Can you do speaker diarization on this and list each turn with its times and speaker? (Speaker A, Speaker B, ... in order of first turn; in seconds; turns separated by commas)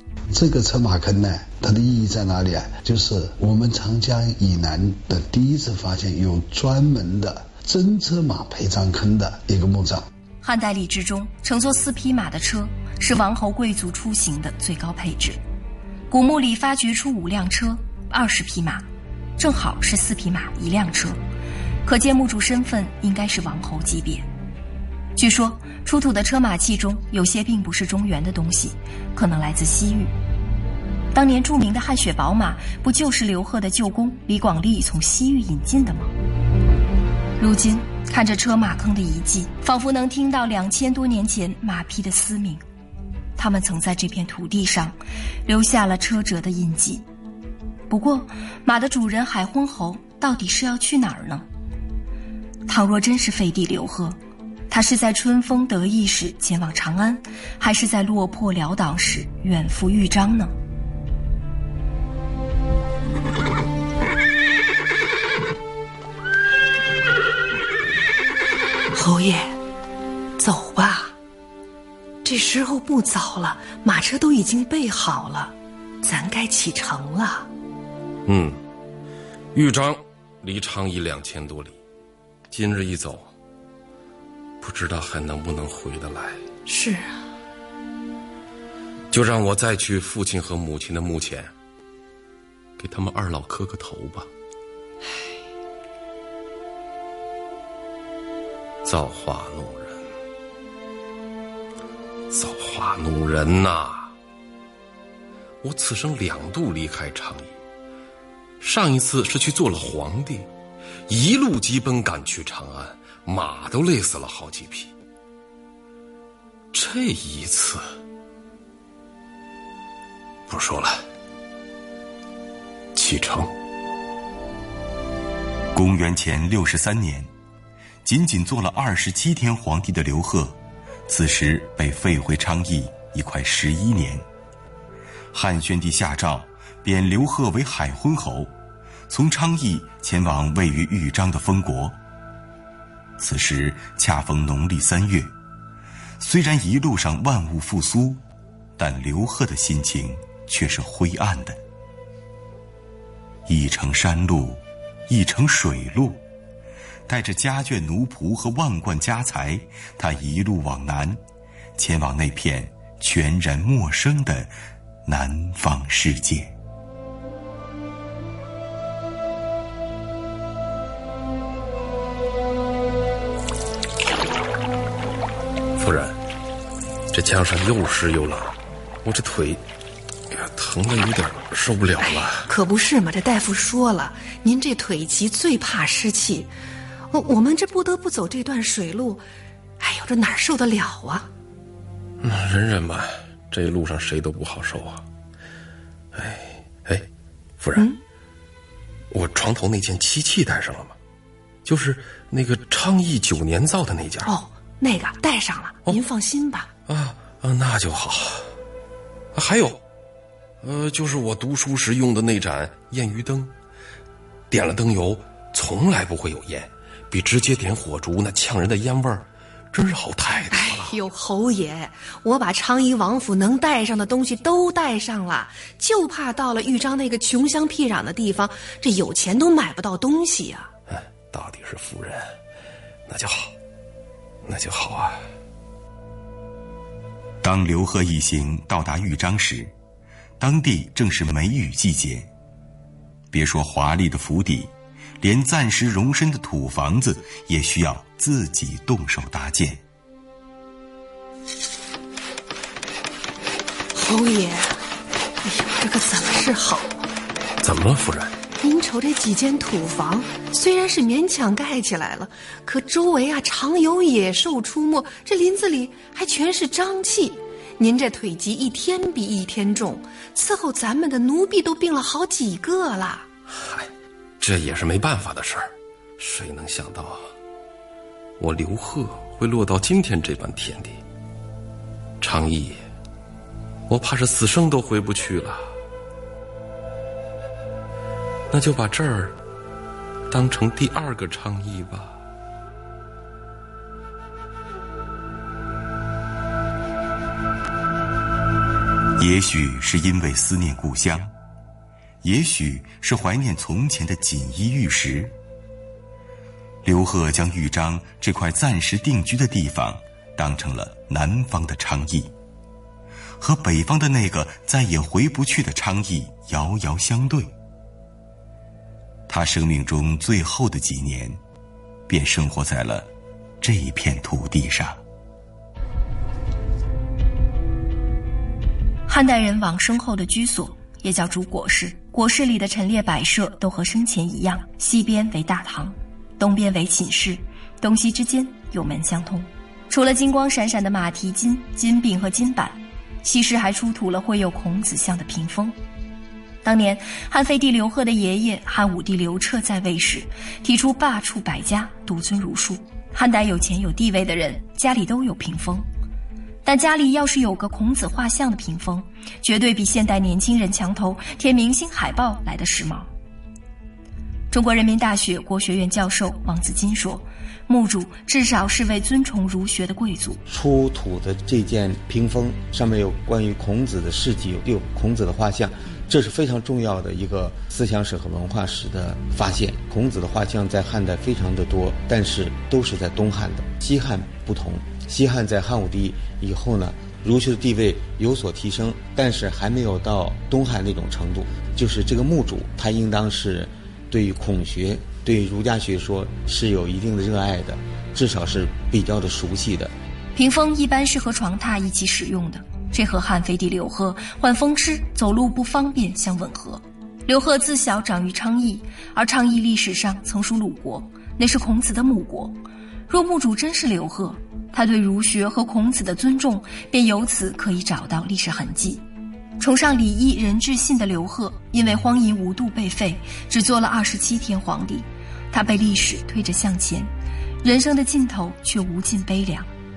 Speaker A: 0.3-10.1, Speaker B: 10.4-15.4, Speaker B: 16.1-18.8, Speaker B: 19.4-21.2, Speaker B: 21.8-24.3, Speaker B: 25.1-30.1, Speaker B: 31.1-36.1, Speaker B: 37.4-42.6, Speaker B: 43.4-47.0, Speaker B: 47.9-51.5, Speaker B: 52.7-54.2, Speaker B: 54.7-60.5, Speaker C: 68.9-69.6, Speaker C: 70.4-71.1, Speaker C: 72.2-77.5, Speaker D: 78.2-78.6, Speaker D: 79.5-81.8, Speaker D: 82.5-83.3, Speaker D: 84.6-86.4, Speaker C: 86.7-87.2, Speaker D: 89.1-91.5, Speaker D: 92.8-94.3, Speaker D: 98.8-100.1, Speaker D: 102.3-104.1, Speaker D: 105.6-107.5, Speaker D: 108.6-110.5, Speaker D: 111.1-114.9, Speaker D: 116.7-117.9, Speaker D: 120.5-121.0, Speaker D: 122.9-123.5, Speaker E: 125.7-127.3, Speaker E: 128.1-130.6, Speaker E: 131.1-134.2, Speaker E: 135.3-138.5, Speaker E: 139.1-142.0, Speaker E: 143.2-145.3, Speaker E: 146.2-148.2, Speaker E: 148.8-151.6, Speaker E: 153.5-156.2, Speaker E: 157.1-161.2, Speaker E: 161.8-164.5, Speaker E: 165.1-166.5, Speaker D: 175.8-176.2, Speaker D: 177.1-179.6, Speaker D: 180.3-182.5, Speaker C: 182.0-186.5, Speaker C: 187.1-189.3, Speaker C: 189.8-191.3, Speaker D: 192.2-195.1, Speaker D: 196.1-197.1, Speaker D: 197.6-197.9, Speaker D: 199.1-200.9, Speaker D: 201.6-204.3, Speaker C: 204.2-206.7, Speaker D: 206.9-208.5, Speaker D: 209.3-209.8, Speaker D: 210.6-213.5, Speaker D: 214.5-220.9, Speaker C: 220.5-230.7, Speaker D: 230.9-232.4, Speaker D: 233.1-233.5, Speaker D: 234.4-235.2, Speaker E: 237.4-239.7, Speaker E: 240.4-242.3, Speaker E: 243.3-249.8, Speaker C: 253.9-254.8, Speaker C: 255.4-256.9, Speaker D: 257.6-258.3, Speaker C: 258.6-273.3, Speaker D: 273.5-277.3, Speaker D: 278.4-281.0, Speaker D: 282.2-282.8, Speaker D: 283.9-285.7, Speaker D: 288.5-289.4, Speaker D: 290.3-292.2, Speaker E: 299.2-301.3, Speaker E: 302.2-305.3, Speaker E: 306.8-312.3, Speaker E: 313.4-317.5, Speaker E: 319.3-321.4, Speaker E: 322.1-323.1, Speaker E: 323.6-325.0, Speaker B: 329.1-345.8, Speaker B: 346.6-355.9, Speaker B: 356.6-363.1, Speaker B: 364.5-370.4, Speaker F: 370.5-399.9, Speaker B: 400.3-419.1, Speaker B: 419.6-427.1, Speaker B: 427.6-429.7